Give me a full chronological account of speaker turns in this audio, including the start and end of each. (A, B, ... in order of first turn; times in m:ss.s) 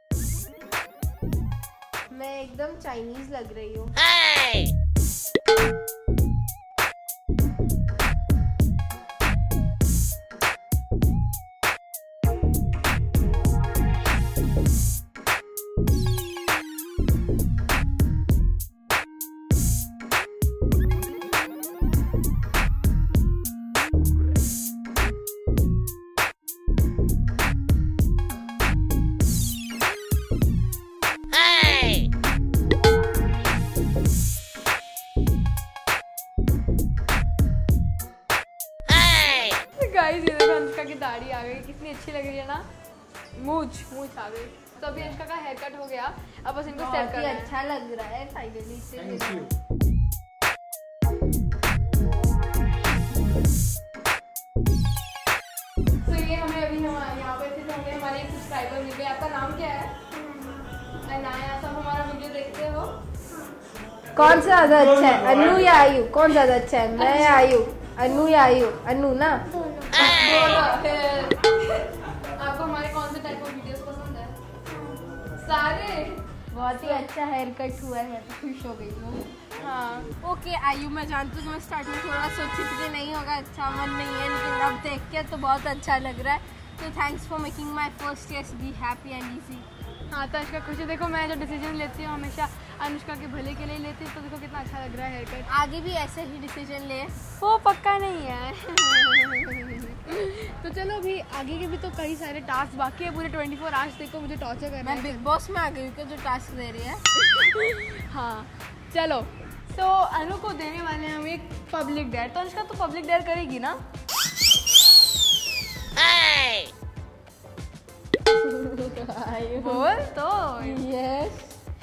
0:02.1-0:03.9 A
0:39.5-0:42.6 B
0:43.4-0:47.5 B
0:46.7-0:49.5 A
0:56.0-1:00.0 B
1:01.0-1:03.0 B
1:04.1-1:10.0 A
1:07.0-1:07.6 B
1:09.9-1:14.4 B
1:15.3-1:16.2 B
1:16.5-1:19.3 A
1:16.8-1:17.1 B
1:19.5-1:20.1 B
1:20.2-1:29.7 A
1:30.1-1:35.5 B
1:35.5-1:37.1 A
1:37.4-1:45.2 B
1:44.8-1:47.0 A
1:47.2-1:53.8 B
1:58.3-2:00.0 A
1:59.6-2:00.8 B
2:00.6-2:01.6 A